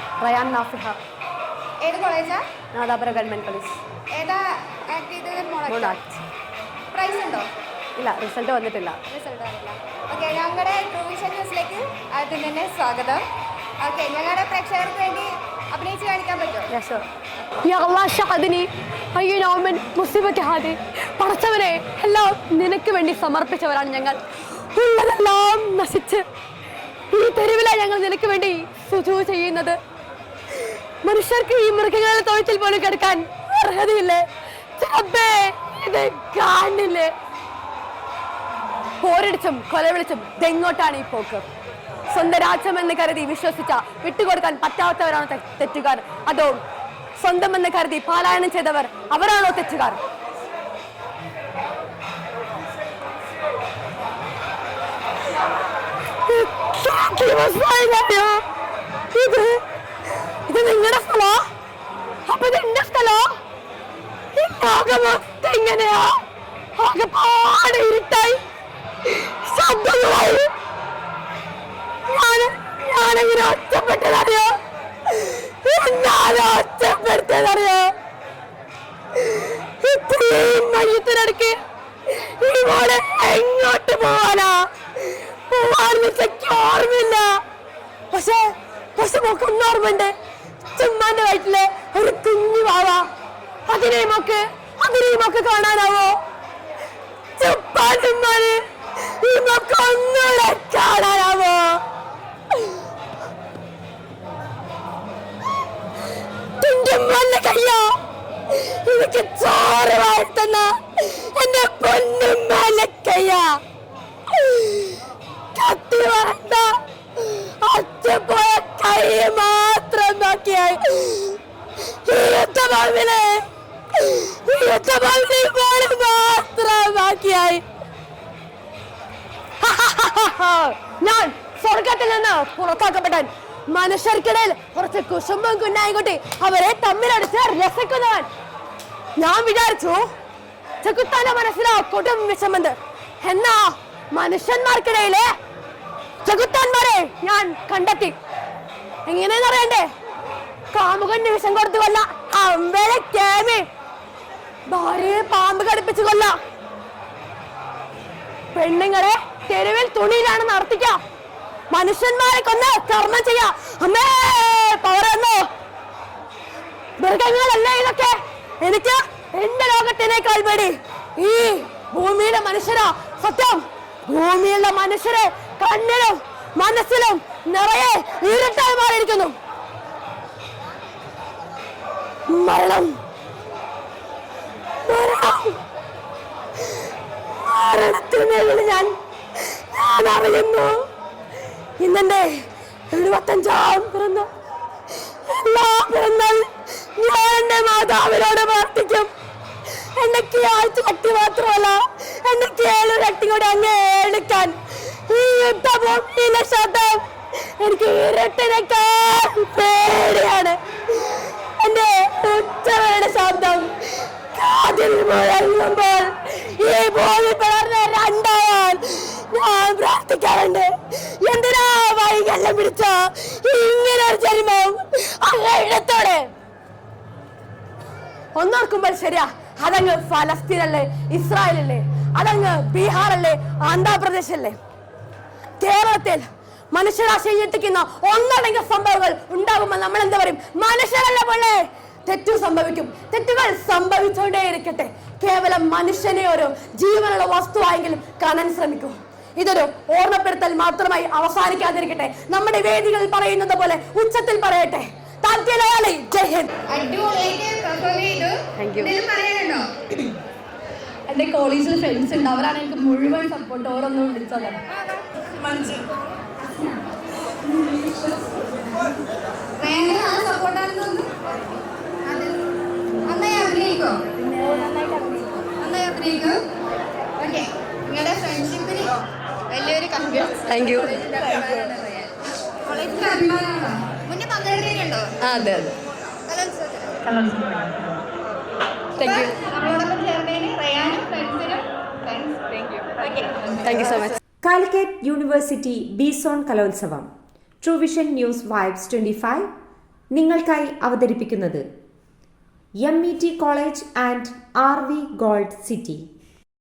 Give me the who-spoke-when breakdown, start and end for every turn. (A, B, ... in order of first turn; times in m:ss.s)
0:00.2-0:01.0 A
0:01.8-0:02.4 B
0:02.7-0:03.8 A
0:04.1-0:06.0 B
0:05.7-0:06.2 A
0:06.9-0:07.5 B
0:08.0-0:09.0 A
0:09.1-0:13.2 B
0:13.8-0:16.7 B
0:16.7-0:17.0 A
0:17.6-0:24.2 A
0:24.8-0:26.2 A
0:27.1-0:29.8 A
0:31.0-0:34.2 A
0:34.8-0:37.1 A
0:39.0-0:41.4 A
0:42.1-0:46.6 A
0:47.2-0:50.0 A
0:56.3-0:58.4 A
0:59.1-0:59.6 A
1:00.5-1:01.4 A
1:02.3-1:03.2 A
1:04.4-1:06.2 A
1:06.8-1:08.4 A
1:09.1-1:10.5 A
1:12.1-1:14.5 A
1:15.1-1:17.9 A
1:19.4-1:21.6 A
1:22.4-1:24.6 A
1:25.5-1:27.3 A
1:28.1-1:28.4 A
1:29.0-1:30.1 A
1:30.8-1:33.0 A
1:33.7-1:36.1 A
1:37.4-1:38.6 A
1:39.2-1:41.7 A
1:46.6-1:47.8 A
1:48.5-1:53.6 A
1:54.3-1:55.0 A
1:55.6-1:56.7 A
1:57.2-2:01.4 A
2:02.1-2:03.4 A
2:04.0-2:07.6 A
2:09.6-2:18.3 A
2:19.2-2:20.0 A
2:20.8-2:23.6 A
2:24.1-2:25.3 A
2:26.2-2:28.1 A
2:29.1-2:29.8 A
2:30.7-2:33.6 A
2:34.7-2:36.3 A
2:38.5-2:41.0 A
2:41.7-2:45.5 A
2:47.0-2:59.4 A
3:02.3-3:03.0 A
3:04.9-3:05.6 A
3:07.4-3:08.9 A
3:09.7-3:10.7 A
3:11.8-3:12.3 A
3:12.9-3:14.3 A
3:15.3-3:19.1 A
3:20.0-3:24.5 A
3:25.1-3:27.0 A
3:27.6-3:30.6 A
3:31.6-3:33.7 A
3:34.4-3:40.7 A
3:41.2-3:46.2 A
3:48.4-3:54.6 A
3:55.6-4:16.5 A
4:16.7-4:19.7 B
4:18.6-4:18.9 A
4:21.1-4:24.6 A
4:25.4-4:25.9 B
4:26.4-4:26.8 B
4:27.4-4:28.8 B
4:29.6-4:31.1 B
4:32.1-4:32.4 B
4:33.1-4:34.6 B
4:35.6-4:36.4 B
4:37.2-4:38.9 B
4:39.5-4:42.1 B
4:40.5-4:40.9 A
4:42.7-4:45.1 B
4:45.2-4:45.8 A
4:47.0-4:47.9 A
4:49.0-4:49.3 A
4:49.0-4:54.0 B
4:53.6-4:54.2 A
4:54.4-4:57.1 C
4:57.6-4:59.5 C
5:00.1-5:01.6 C
5:02.8-5:06.1 C